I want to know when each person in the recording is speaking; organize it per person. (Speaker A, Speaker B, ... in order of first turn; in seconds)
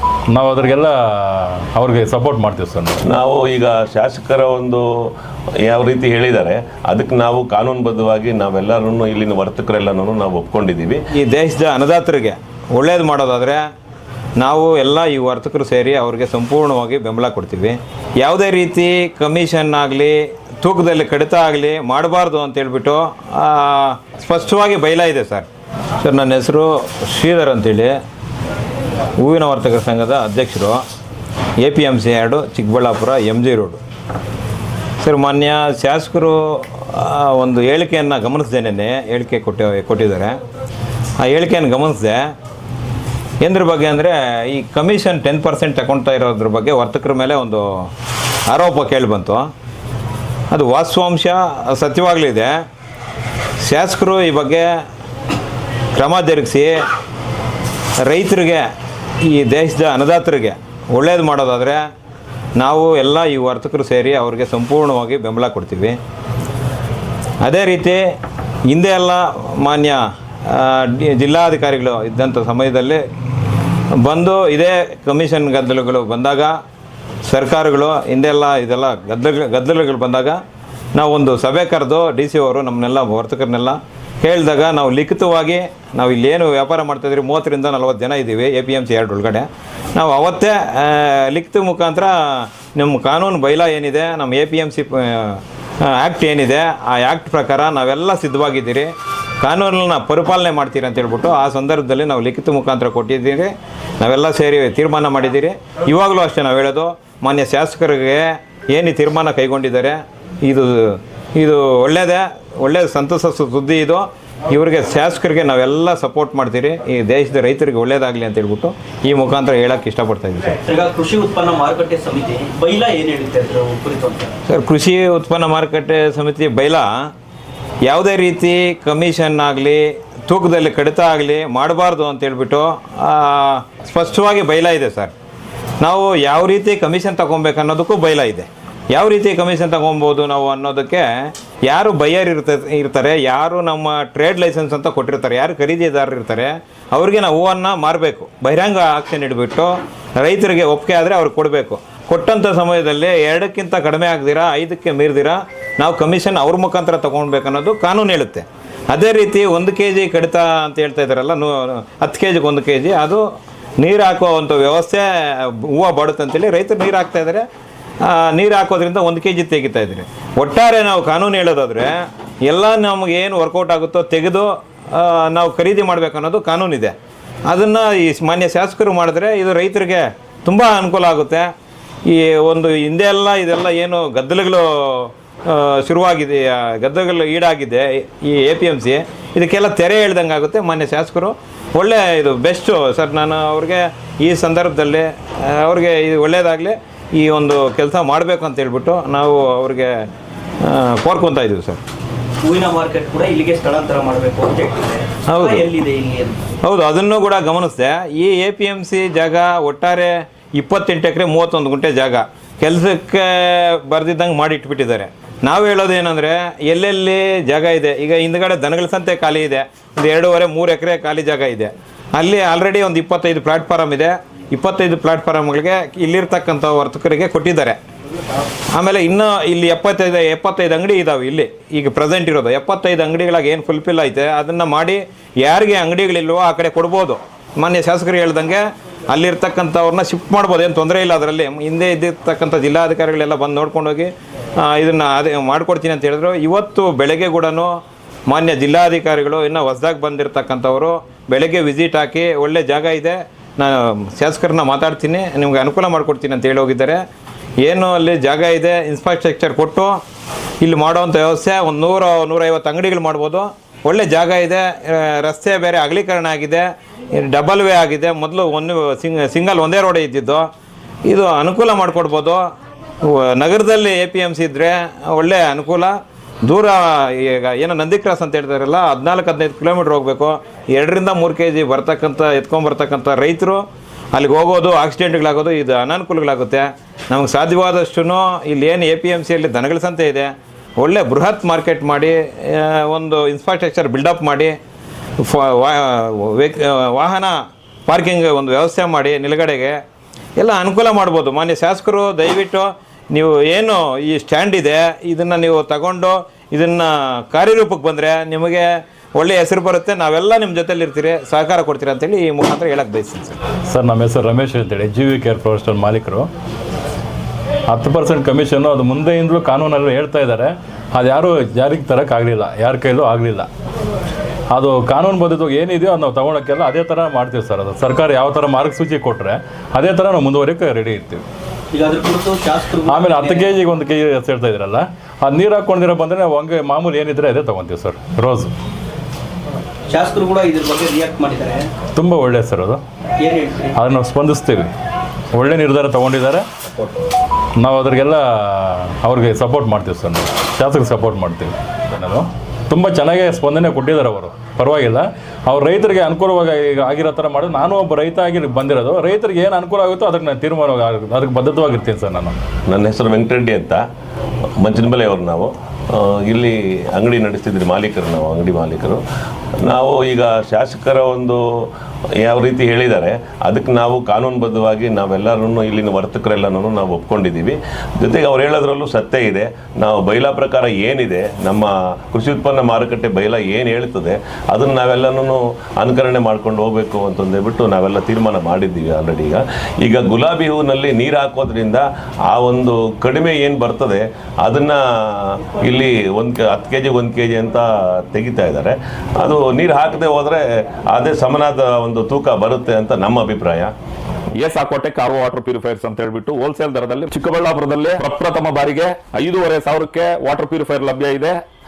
Speaker A: 0.3-3.0, 313.7-316.3, 317.7-323.5, 324.5-331.2, 332.9-338.5, 342.0-342.8, 343.8-344.7, 345.3-346.4, 347.6-362.4
Speaker B: 3.0-4.9, 5.6-11.0, 362.7-363.9, 364.6-369.0, 369.6-403.7
Speaker C: 11.1-13.7, 14.4-28.0, 29.2-30.9, 31.6-33.8, 35.0-40.4, 41.2-42.4, 43.4-47.9, 48.5-49.5, 50.5-52.6, 53.6-54.8, 55.9-56.8, 58.0-58.7, 59.2-61.9, 62.6-66.0, 67.4-68.0, 68.7-73.0, 74.0-76.6, 77.3-80.4, 81.0-120.6, 124.5-127.1, 127.9-135.1, 135.8-163.3, 163.8-167.4, 168.0-176.9, 177.5-181.5, 182.1-200.1, 200.6-201.8, 205.3-205.7, 206.6-227.8, 228.7-257.0, 257.6-260.0, 260.6-270.5, 271.1-272.5, 273.0-294.6, 295.2-299.8, 300.4-313.4
Speaker D: 120.6-124.3, 202.4-206.5, 331.7-333.6, 339.9-341.7, 343.2-343.8
Speaker E: 404.4-411.4